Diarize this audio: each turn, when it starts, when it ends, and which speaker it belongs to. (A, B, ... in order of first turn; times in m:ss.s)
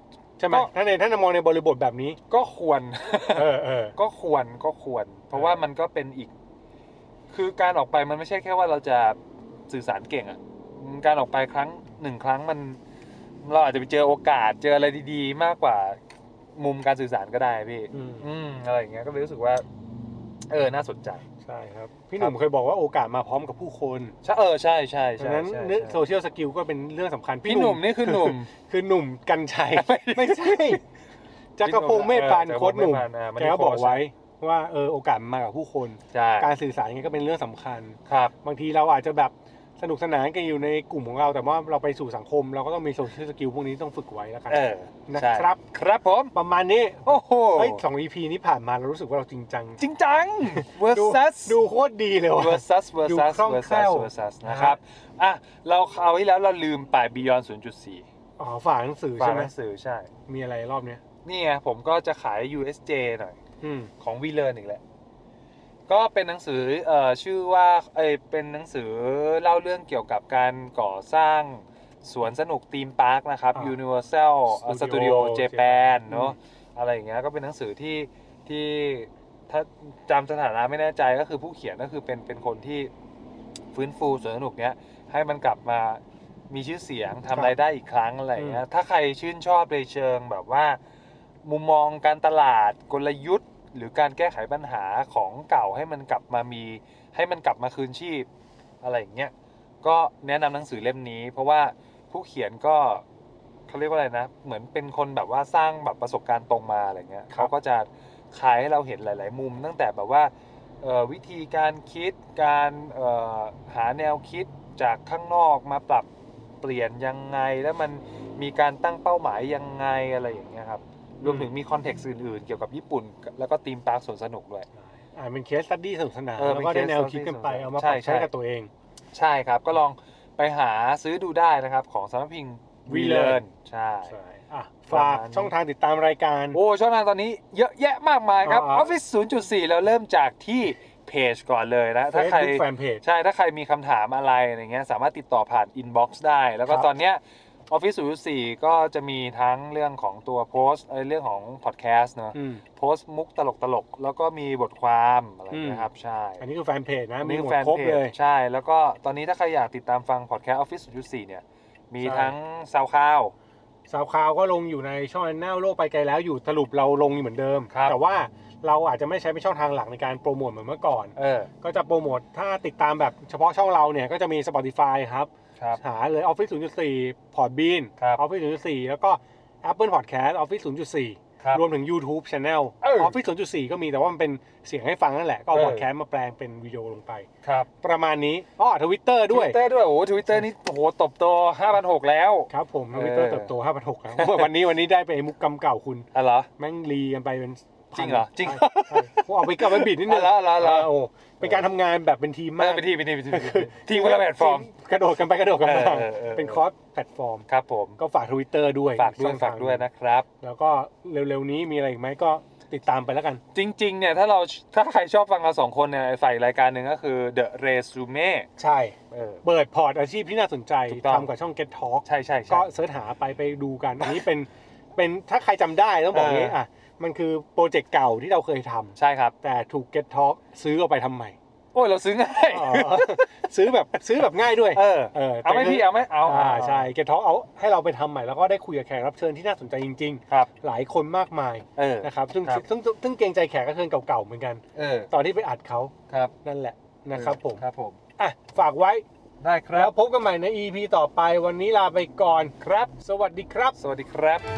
0:00.4-0:02.2 A
0:02.3-0:06.3 B
0:03.3-0:03.9 A
0:05.3-0:05.6 A
0:07.3-0:09.2 B
0:09.7-0:12.8 B
0:13.4-0:16.0 B
0:16.6-0:19.6 B
0:17.9-0:18.3 A
0:20.5-0:21.2 B
0:21.4-0:24.2 A
0:24.2-0:26.0 B
0:25.2-0:30.8 A
0:27.4-0:28.5 B
0:29.7-0:30.8 B
0:31.6-0:45.6 A
0:31.6-0:34.0 B
0:36.1-0:36.5 B
0:38.1-0:38.3 B
0:44.5-0:46.3 B
0:46.3-0:49.8 A
0:47.0-0:47.8 B
0:49.8-0:51.6 B
0:50.4-0:54.8 A
0:52.4-0:58.1 B
0:58.4-0:59.5 A
0:59.2-1:00.1 B
1:00.3-1:01.0 A
1:01.2-1:03.4 B
1:03.6-1:03.9 A
1:04.0-1:04.8 B
1:05.9-1:22.9 B
1:14.5-1:16.4 A
1:23.7-1:30.8 B
1:28.4-1:28.6 A
1:31.4-1:38.3 B
1:38.8-1:43.0 B
1:43.7-1:56.1 B
1:56.6-2:04.7 B
2:01.2-2:01.5 A
2:05.1-2:08.7 A
2:06.4-2:08.3 B
2:09.1-2:14.1 B
2:12.9-2:13.4 A
2:14.1-2:16.6 A
2:14.9-2:15.5 B
2:16.5-2:36.4 B
2:18.4-2:18.9 A
2:22.1-2:23.0 A
2:26.6-2:27.0 A
2:32.3-2:32.6 A
2:35.5-2:38.1 A
2:37.2-2:43.3 B
2:42.0-2:42.3 A
2:43.9-3:07.3 A
2:47.7-2:48.0 B
2:51.2-2:51.5 B
2:58.0-2:58.2 B
3:02.8-3:03.1 B
3:05.5-3:05.9 B
3:07.4-3:07.7 B
3:07.8-3:09.6 A
3:09.3-3:13.5 B
3:12.5-3:27.4 A
3:14.1-3:14.5 B
3:16.1-3:16.5 B
3:17.9-3:21.6 B
3:22.6-3:24.7 B
3:25.6-3:26.6 B
3:27.5-3:28.0 B
3:28.0-3:29.8 A
3:29.0-3:30.2 B
3:30.4-3:33.4 A
3:33.5-3:38.5 B
3:38.6-3:51.4 A
3:39.1-3:39.4 B
3:40.9-3:41.3 B
3:42.0-3:42.7 B
3:46.1-3:46.6 B
3:49.0-3:49.3 B
3:51.7-3:53.4 B
3:52.5-4:05.9 A
3:54.7-3:56.9 B
4:01.8-4:02.6 B
4:04.7-4:05.1 B
4:06.4-4:07.6 A
4:07.1-4:08.0 B
4:08.2-4:09.0 A
4:09.4-4:09.9 B
4:09.7-4:13.8 A
4:12.6-4:12.9 B
4:13.8-4:14.5 B